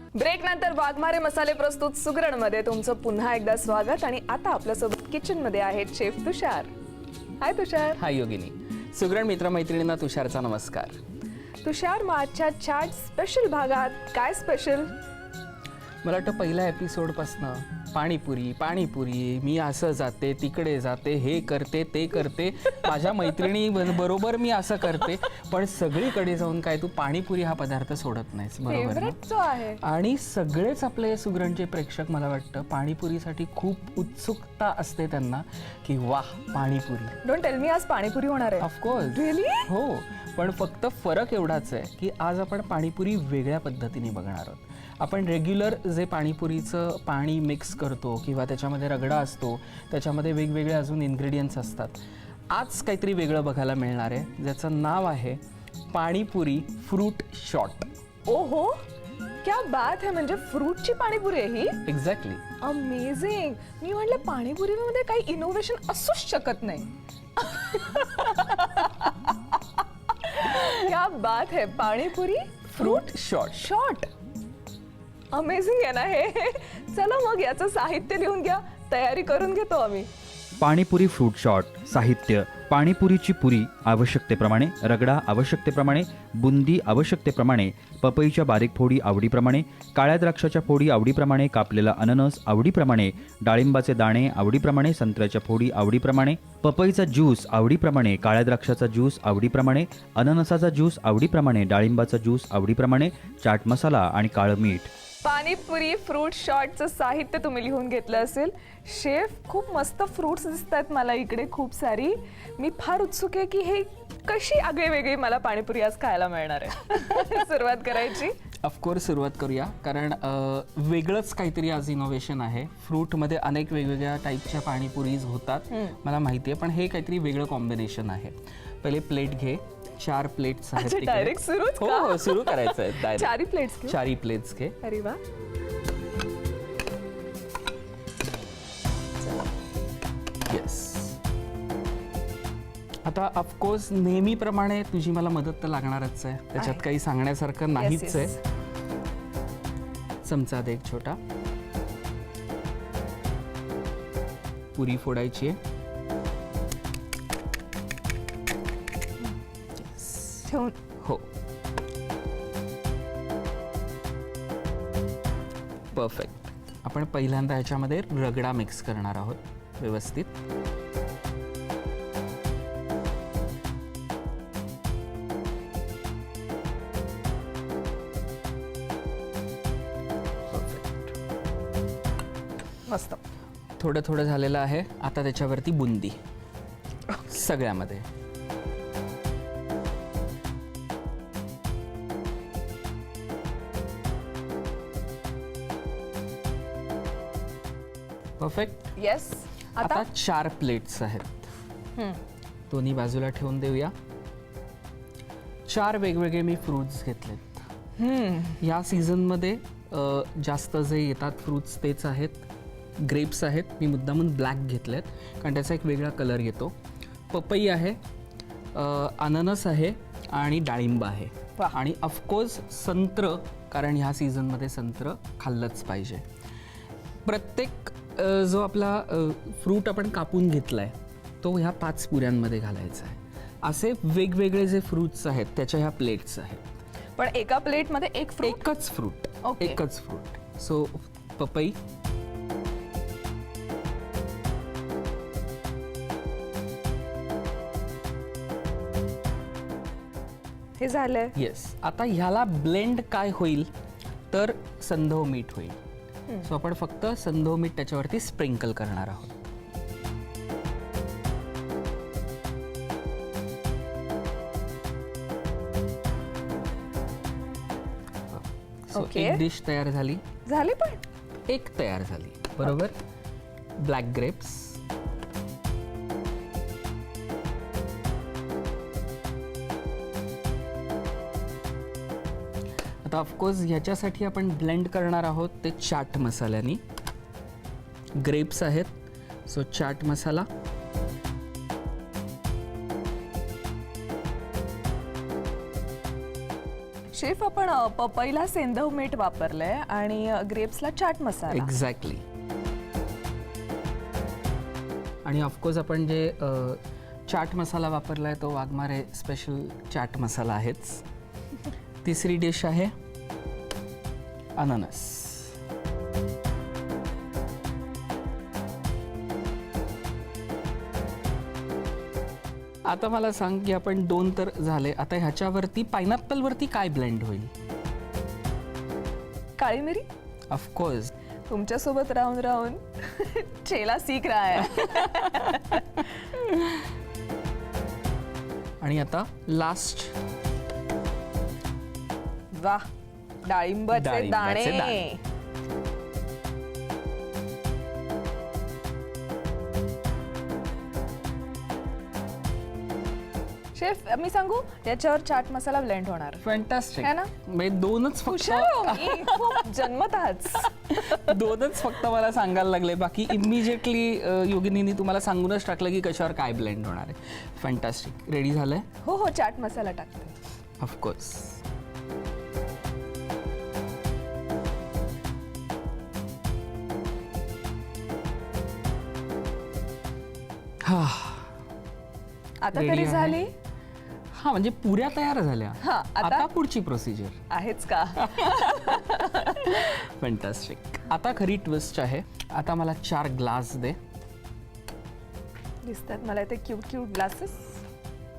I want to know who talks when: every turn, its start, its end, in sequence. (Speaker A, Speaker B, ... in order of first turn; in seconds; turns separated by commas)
Speaker A: 0.1-6.7, Speaker A: 7.4-8.0, Speaker B: 8.0-11.0, Speaker A: 11.6-14.9, Speaker B: 16.0-29.2, Speaker A: 28.6-29.8, Speaker B: 29.8-37.1, Speaker A: 37.2-39.7, Speaker B: 38.6-52.0, Speaker B: 52.5-57.9, Speaker A: 58.2-58.8, Speaker A: 59.4-61.8, Speaker B: 61.9-62.4, Speaker A: 62.6-69.1, Speaker A: 70.2-74.1, Speaker B: 72.7-73.7, Speaker A: 75.3-80.1, Speaker C: 80.6-104.9, Speaker A: 105.2-118.4, Speaker B: 118.6-134.8, Speaker A: 130.8-134.0, Speaker A: 134.8-135.2, Speaker B: 140.4-141.2, Speaker B: 143.0-148.3, Speaker A: 146.6-146.8, Speaker A: 147.7-148.4, Speaker B: 150.2-151.2, Speaker B: 154.7-155.6, Speaker B: 159.8-160.5, Speaker A: 160.4-160.8, Speaker B: 161.0-161.2, Speaker B: 165.9-170.4, Speaker B: 180.5-181.0, Speaker A: 182.8-183.2, Speaker B: 183.8-186.2, Speaker B: 187.2-188.1, Speaker B: 198.4-198.9, Speaker A: 198.9-200.1, Speaker B: 199.8-201.5, Speaker A: 201.9-202.2, Speaker B: 202.7-203.9, Speaker B: 205.7-207.7, Speaker A: 208.0-208.6, Speaker B: 208.6-212.4, Speaker B: 213.0-216.7, Speaker B: 217.3-218.0, Speaker B: 218.7-226.2, Speaker B: 227.2-236.7, Speaker A: 237.2-238.6, Speaker B: 238.4-241.8, Speaker A: 239.4-239.8, Speaker A: 250.8-251.3, Speaker B: 251.3-253.7, Speaker B: 254.3-255.8, Speaker B: 256.4-259.4, Speaker B: 268.3-270.2, Speaker A: 268.9-269.4, Speaker A: 270.4-271.0, Speaker B: 271.5-273.0, Speaker B: 273.8-274.8, Speaker B: 283.0-286.8, Speaker B: 288.1-290.5, Speaker A: 297.1-301.7, Speaker B: 301.5-302.2, Speaker B: 305.2-311.0, Speaker B: 312.0-312.9, Speaker B: 314.6-315.5, Speaker B: 322.8-327.5, Speaker A: 329.6-330.1, Speaker B: 330.5-331.1, Speaker A: 331.5-336.1, Speaker B: 338.8-340.1, Speaker A: 342.5-342.9, Speaker A: 343.4-345.2, Speaker B: 343.9-345.0, Speaker A: 353.7-356.4, Speaker B: 356.4-359.7, Speaker A: 357.0-357.3, Speaker A: 358.2-361.4, Speaker B: 360.7-368.9, Speaker A: 369.0-370.3, Speaker B: 370.8-371.6, Speaker B: 380.8-381.5, Speaker A: 382.6-383.5, Speaker B: 382.7-383.4, Speaker B: 384.3-387.4, Speaker A: 385.8-386.5, Speaker A: 387.5-389.9, Speaker B: 388.2-394.0, Speaker A: 395.8-397.8